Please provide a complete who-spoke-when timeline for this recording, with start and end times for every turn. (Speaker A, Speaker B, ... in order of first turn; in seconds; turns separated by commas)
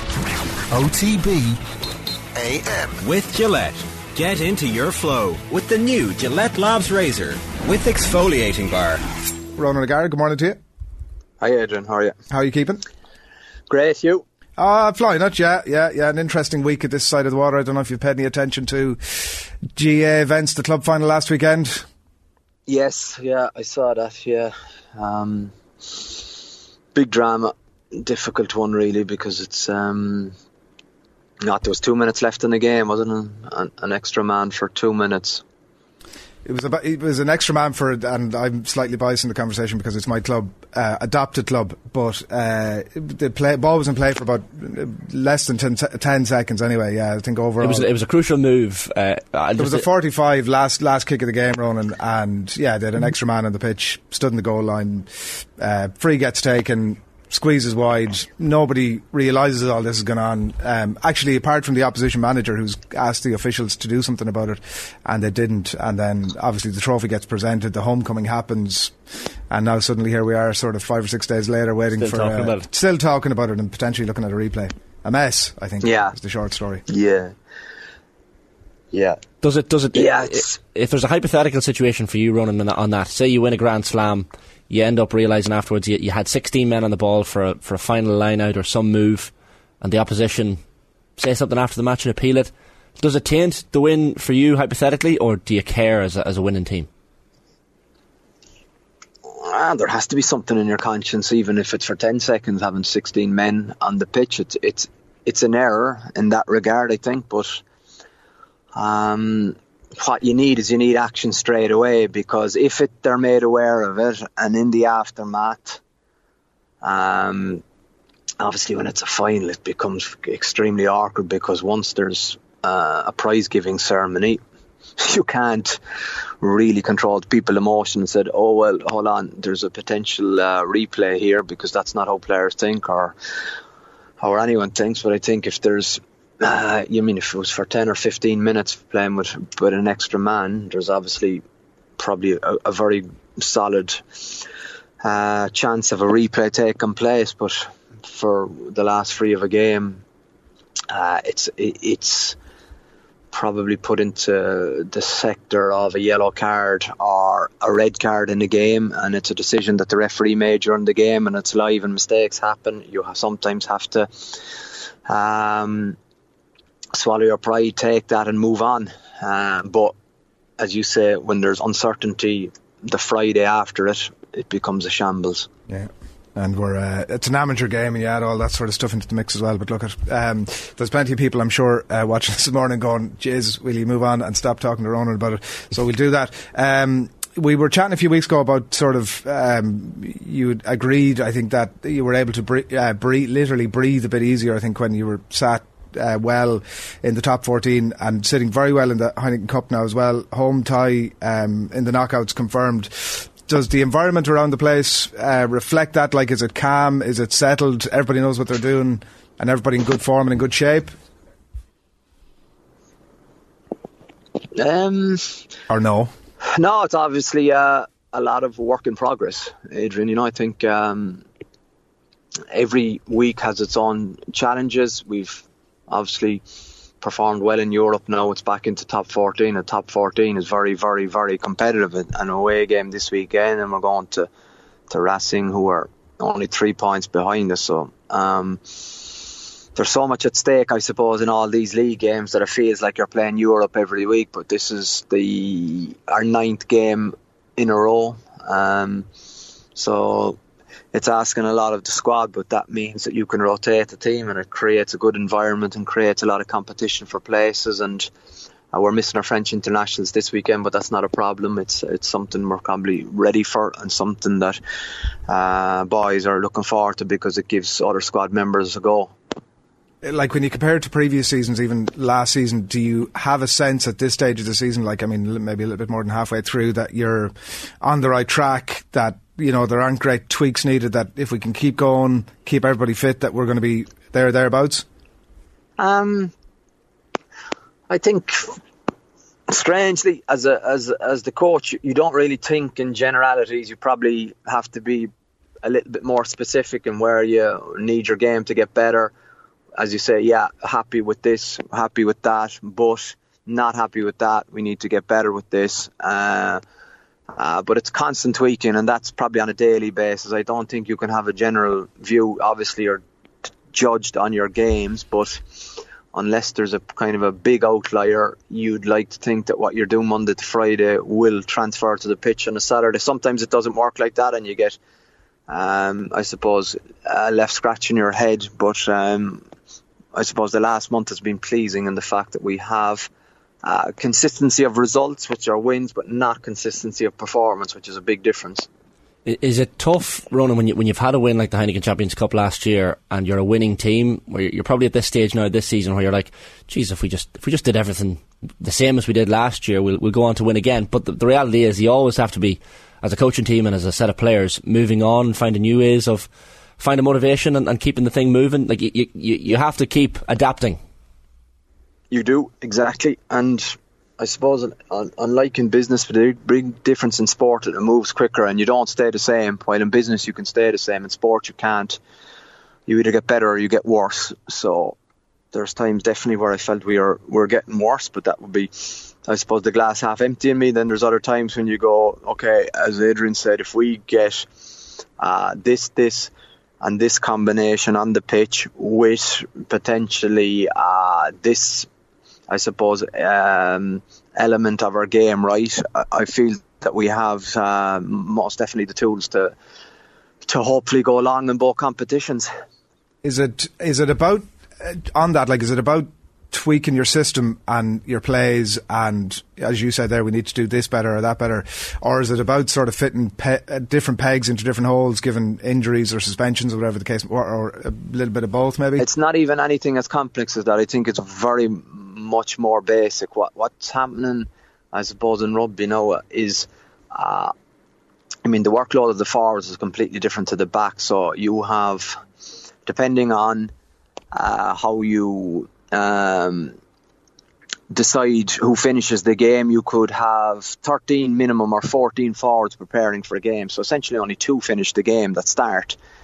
Speaker A: 0.7-1.6, Speaker A: 2.4-9.0, Speaker B: 9.6-10.6, Speaker C: 11.4-12.2, Speaker B: 12.3-12.8, Speaker C: 13.7-14.2, Speaker B: 14.6-21.9, Speaker C: 22.7-26.4, Speaker C: 26.9-30.4, Speaker C: 31.4-35.4, Speaker B: 36.5-47.9, Speaker D: 47.6-49.9, Speaker B: 49.6-69.0, Speaker B: 69.5-76.8, Speaker D: 72.0-72.7, Speaker C: 75.8-76.1, Speaker C: 76.9-77.3, Speaker C: 78.9-79.2, Speaker D: 79.4-90.6, Speaker C: 79.9-80.6, Speaker D: 91.2-96.9, Speaker C: 99.3-107.6, Speaker C: 108.8-115.8, Speaker C: 116.8-117.6, Speaker C: 118.4-124.4, Speaker C: 125.0-125.8, Speaker C: 126.4-133.2, Speaker C: 134.2-141.4, Speaker C: 142.0-144.5, Speaker C: 145.0-150.0, Speaker C: 150.9-152.4, Speaker C: 153.3-166.0, Speaker C: 166.9-169.9, Speaker C: 170.6-175.5, Speaker B: 175.7-210.9, Speaker C: 214.5-215.4, Speaker B: 215.7-216.1, Speaker C: 216.5-221.2, Speaker C: 222.5-226.4, Speaker C: 227.0-234.3, Speaker C: 234.9-249.1, Speaker C: 249.8-250.4, Speaker C: 250.9-258.1, Speaker C: 258.7-264.6, Speaker C: 265.3-269.1, Speaker B: 270.0-284.9, Speaker C: 285.8-286.3, Speaker C: 287.9-288.6, Speaker C: 289.5-295.1, Speaker C: 295.6-299.1, Speaker C: 299.8-306.6, Speaker C: 307.3-313.0, Speaker C: 313.7-324.8, Speaker C: 325.5-329.4, Speaker C: 330.1-333.1, Speaker C: 333.6-338.7, Speaker D: 339.2-356.3, Speaker D: 356.8-360.8, Speaker C: 362.1-372.0, Speaker C: 372.9-375.0, Speaker C: 375.5-384.5, Speaker C: 385.2-391.9, Speaker C: 392.5-399.6, Speaker C: 400.4-402.5, Speaker B: 403.2-419.1, Speaker C: 419.0-427.5, Speaker C: 428.4-432.2, Speaker C: 432.9-433.7, Speaker C: 434.3-436.8, Speaker C: 437.9-446.0